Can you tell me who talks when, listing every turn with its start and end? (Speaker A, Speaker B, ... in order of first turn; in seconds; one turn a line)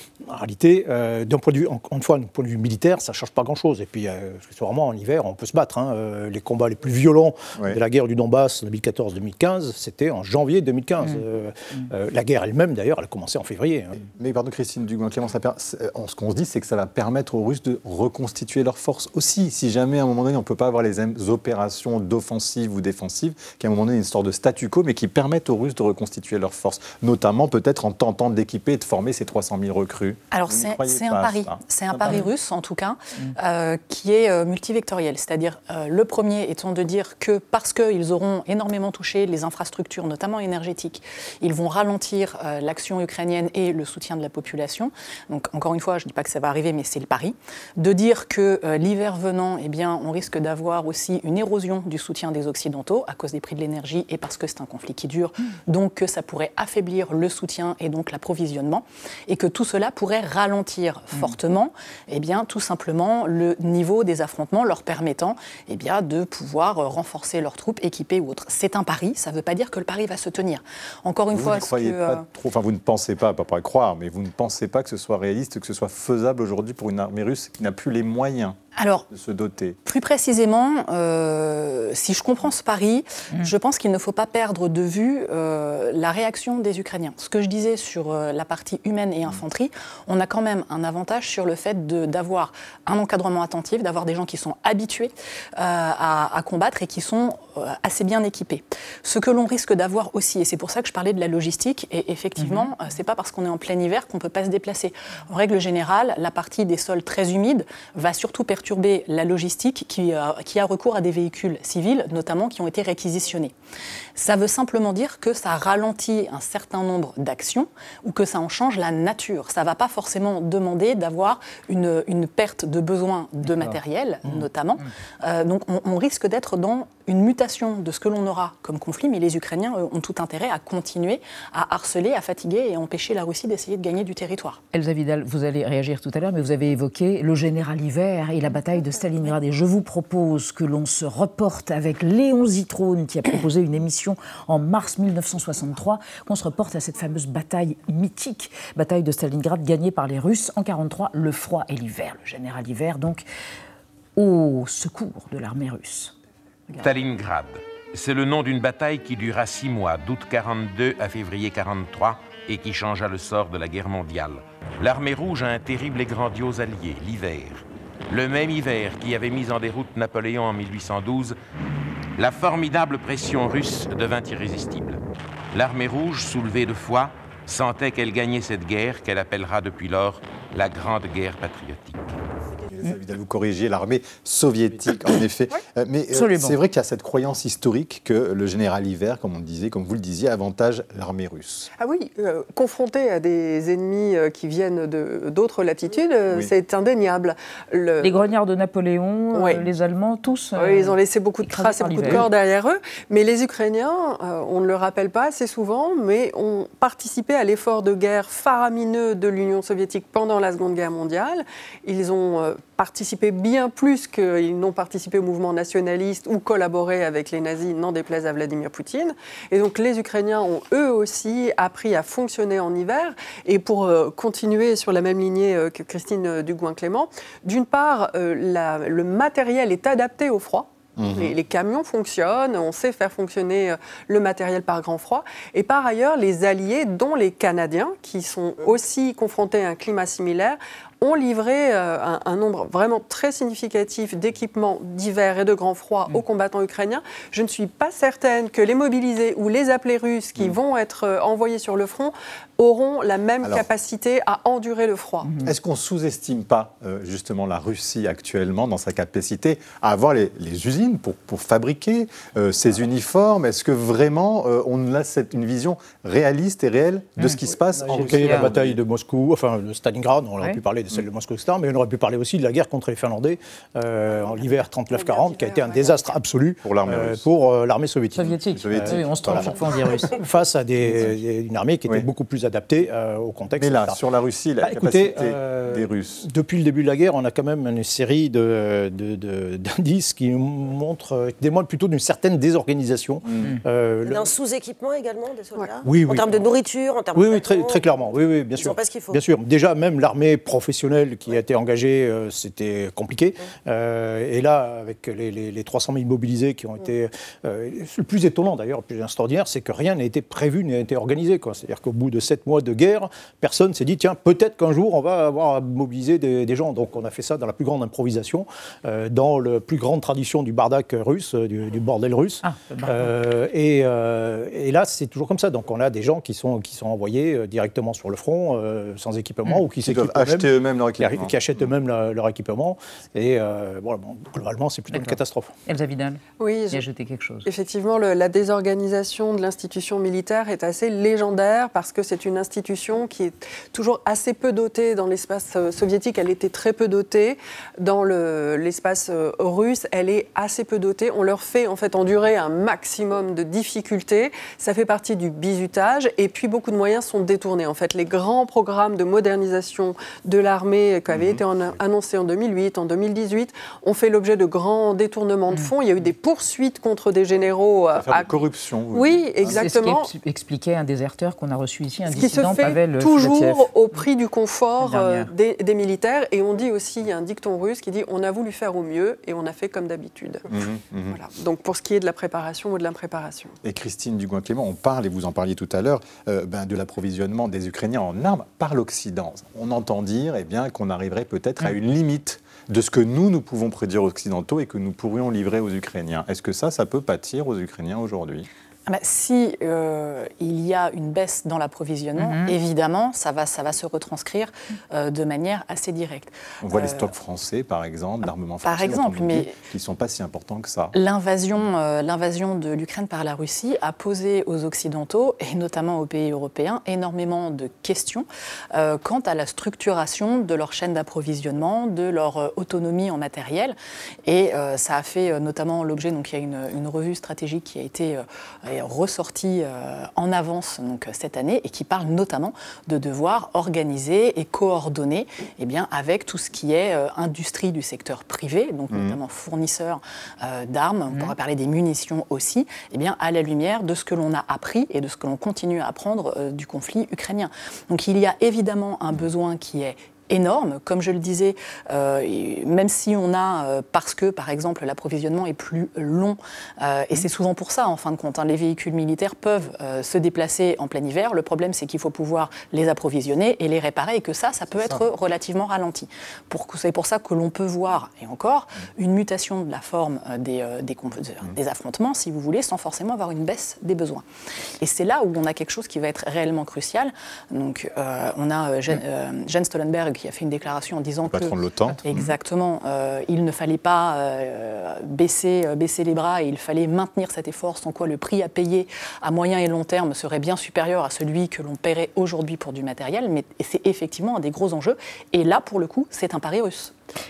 Speaker A: 0.2-14.0
Speaker B: 14.0-32.3
Speaker C: 30.3-72.2
Speaker B: 71.3-78.6
Speaker C: 78.8-79.1
Speaker B: 79.1-79.8
Speaker C: 79.8-113.5
Speaker D: 102.4-102.7
Speaker C: 114.2-134.6
Speaker D: 123.5-124.4
Speaker D: 134.7-153.3
Speaker D: 154.2-156.1
Speaker E: 156.8-171.4
Speaker E: 172.2-175.0
Speaker E: 175.5-182.0
Speaker B: 182.6-191.7
Speaker D: 186.1-186.6
Speaker F: 191.8-198.2
Speaker D: 198.0-202.3
Speaker F: 199.3-199.6
Speaker F: 200.6-255.3
Speaker B: 231.0-231.4
Speaker D: 255.2-255.5
Speaker B: 255.4-268.8
Speaker D: 267.2-268.5
Speaker A: 267.7-284.0
Speaker F: 274.9-276.2
Speaker B: 276.6-277.2
Speaker D: 278.1-280.1
Speaker B: 278.4-279.6
Speaker B: 283.6-286.2
Speaker A: 284.6-294.3
Speaker B: 293.2-293.6
Speaker G: 294.0-299.2
Speaker A: 295.8-296.5
Speaker A: 297.1-335.5
Speaker D: 322.4-323.1
Speaker B: 329.8-331.7
Speaker D: 334.9-337.5
Speaker F: 336.4-336.9
Speaker F: 337.4-370.1
Speaker B: 361.1-361.4
Speaker B: 367.9-369.7
Speaker D: 369.5-374.0
Speaker F: 372.1-380.4
Speaker D: 374.8-375.3
Speaker B: 380.5-381.2
Speaker F: 381.1-383.6
Speaker B: 383.6-398.5
Speaker C: 398.9-407.1
Speaker D: 402.2-402.6
Speaker B: 406.6-410.9
Speaker C: 408.6-409.6
Speaker C: 410.9-474.2
Speaker B: 438.9-439.2
Speaker C: 474.8-481.6
Speaker B: 481.3-482.0
Speaker D: 481.9-482.3
Speaker C: 482.1-496.9